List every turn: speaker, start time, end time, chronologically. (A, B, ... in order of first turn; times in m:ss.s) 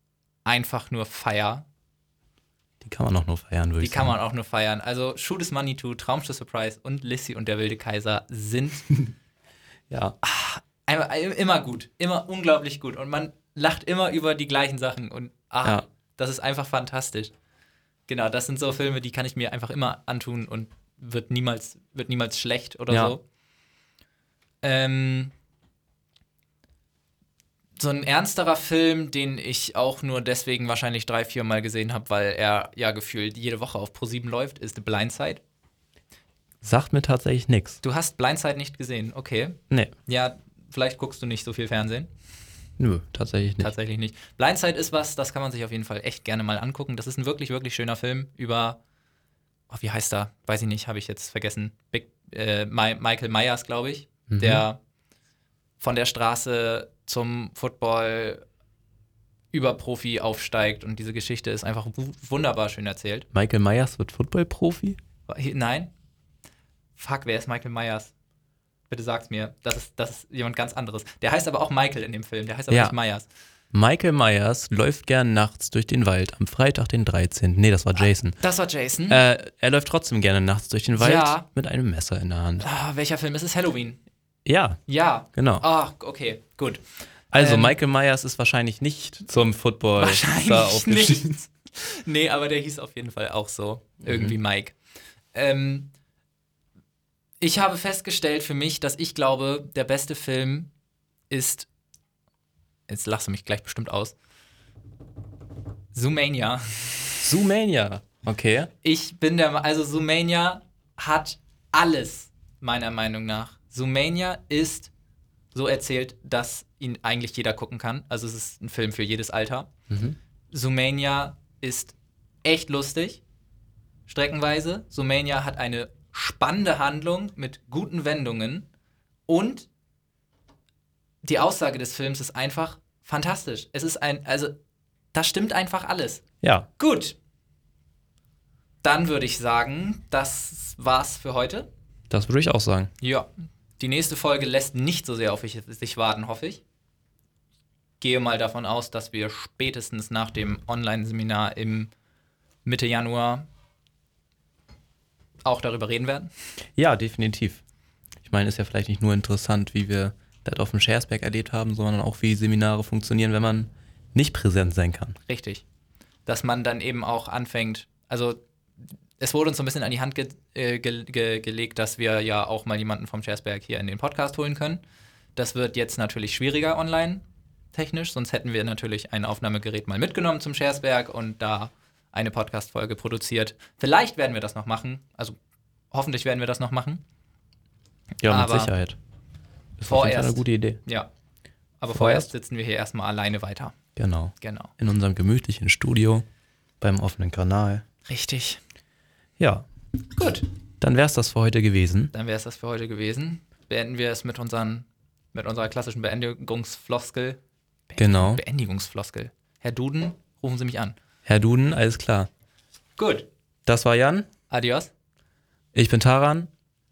0:00.4-0:01.6 A
0:02.8-0:04.1 B
0:03.8-0:08.9 A
0:09.9-0:10.2 B
0:10.2-0:17.3 A
0:18.1-0:23.2 A
0:24.6-0:25.3 A
0:27.8-0:35.4 A
0:36.6-0:37.8 B
0:37.8-0:42.1 A
0:42.8-0:43.7 B
0:43.6-0:48.8 A
0:49.7-0:54.8 A
0:54.3-0:54.6 B
0:55.8-0:58.4 A
0:59.5-1:03.3 A
1:03.3-1:05.0 B
1:05.3-1:05.9 A
1:07.0-1:08.1 A
1:08.9-1:13.3 A
1:12.7-1:12.9 B
1:13.7-1:18.4 B
1:18.0-1:19.2 A
1:19.1-1:22.6 B
1:21.0-1:21.4 A
1:22.6-1:24.0 A
1:24.4-1:24.8 B
1:24.9-1:26.8 A
1:25.3-1:25.6 B
1:27.3-1:31.4 B
1:27.3-1:27.8 A
1:30.0-1:34.8 A
1:34.0-1:34.4 B
1:35.3-1:35.9 A
1:37.4-1:40.7 A
1:41.3-1:41.7 A
1:42.9-1:44.1 A
1:45.9-1:47.3 A
1:47.2-1:48.7 B
1:48.8-1:54.9 A
1:55.5-1:59.7 A
1:59.9-2:00.2 B
2:00.5-2:03.2 A
2:04.1-2:08.6 A
2:09.3-2:09.7 A
2:11.2-2:14.6 A
2:15.1-2:16.2 A
2:16.4-2:16.7 B
2:16.8-2:17.2 A
2:18.8-2:21.7 A
2:22.1-2:22.9 B
2:23.0-2:23.3 A
2:23.8-2:26.6 A
2:28.0-2:31.9 A
2:32.6-2:33.4 A
2:35.4-2:36.3 A
2:36.8-2:37.6 B
2:38.2-2:45.2 B
2:45.3-2:45.6 A
2:46.2-2:48.4 A
2:49.2-2:54.8 A
2:55.4-3:05.4 A
3:05.9-3:07.0 A
3:08.2-3:09.0 B
3:08.3-3:08.7 A
3:09.8-3:10.8 B
3:09.9-3:11.1 A
3:11.8-3:13.7 A
3:11.9-3:12.3 B
3:14.0-3:16.2 B
3:14.4-3:14.7 A
3:16.8-3:17.8 B
3:18.0-3:18.6 A
3:19.4-3:19.6 B
3:20.2-3:20.5 A
3:20.8-3:22.1 B
3:22.1-3:27.4 A
3:27.9-3:31.0 A
3:28.0-3:28.4 B
3:31.2-3:32.3 B
3:33.0-3:33.3 A
3:33.6-3:34.3 B
3:34.5-3:34.9 A
3:35.7-3:36.5 B